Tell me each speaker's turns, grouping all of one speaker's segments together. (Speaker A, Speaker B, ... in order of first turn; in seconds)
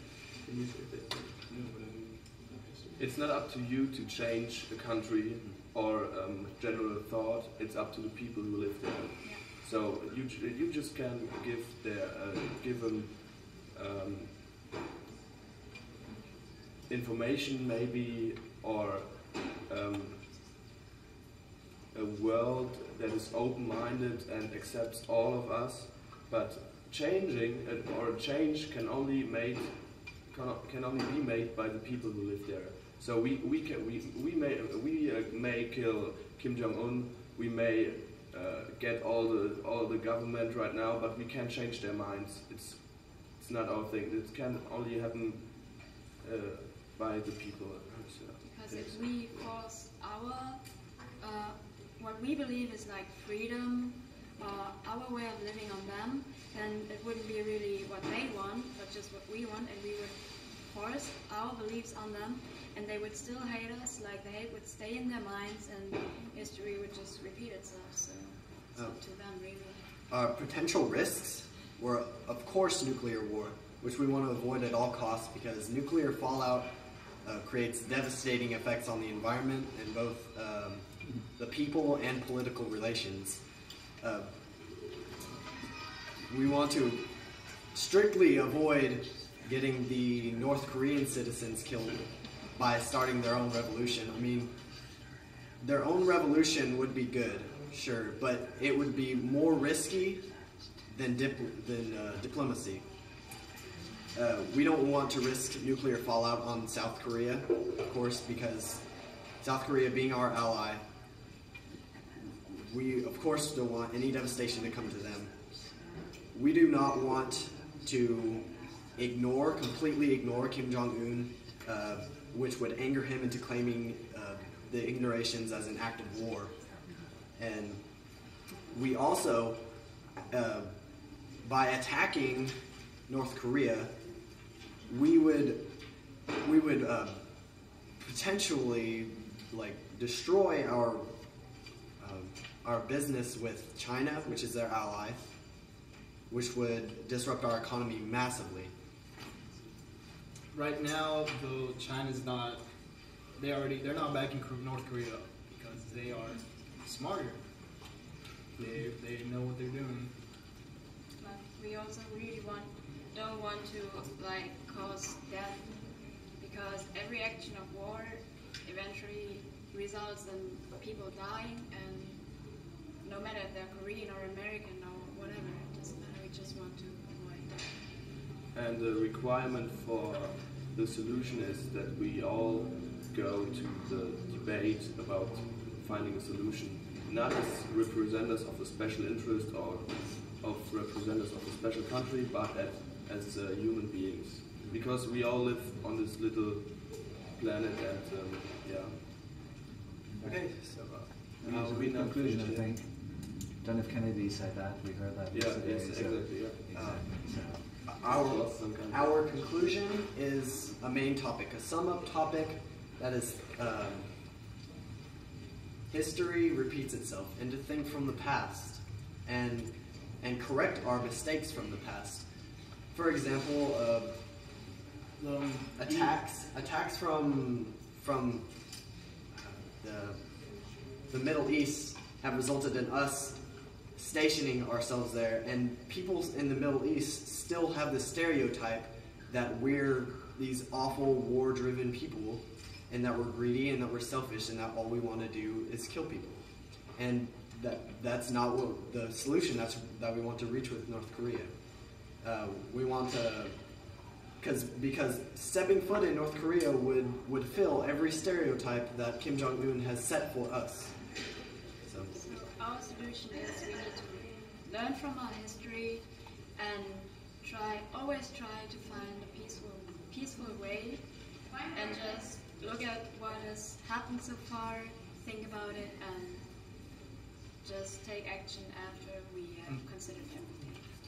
Speaker A: 0.4-3.0
Speaker B: 3.0-14.4, 16.9-20.4, 21.9-49.0, 178.5-199.4, 200.2-202.8, 205.3-207.2, 207.9-209.6
Speaker C: 48.4-69.9, 161.2-177.7, 262.1-276.9, 277.6-280.8
Speaker D: 70.1-83.4, 84.0-84.3, 86.3-87.0, 87.7-94.5, 95.6-100.3, 100.8-102.8, 104.1-108.8, 109.4-110.8, 112.5-115.3, 116.3-126.5, 127.3-127.8, 128.7-129.6, 130.1-130.7, 131.3-133.9, 134.8-135.7, 136.3-137.2, 138.0-141.1, 142.0-145.2, 146.3-148.7, 206.7-207.0, 207.8-214.1, 215.9-222.3, 222.9-224.2, 225.8-228.5, 229.3-230.2, 231.1-253.6, 254.4-261.0, 261.8-262.1
Speaker E: 150.5-157.4, 158.6-160.1, 225.2-226.2
Speaker F: 200.1-200.5, 201.4-207.8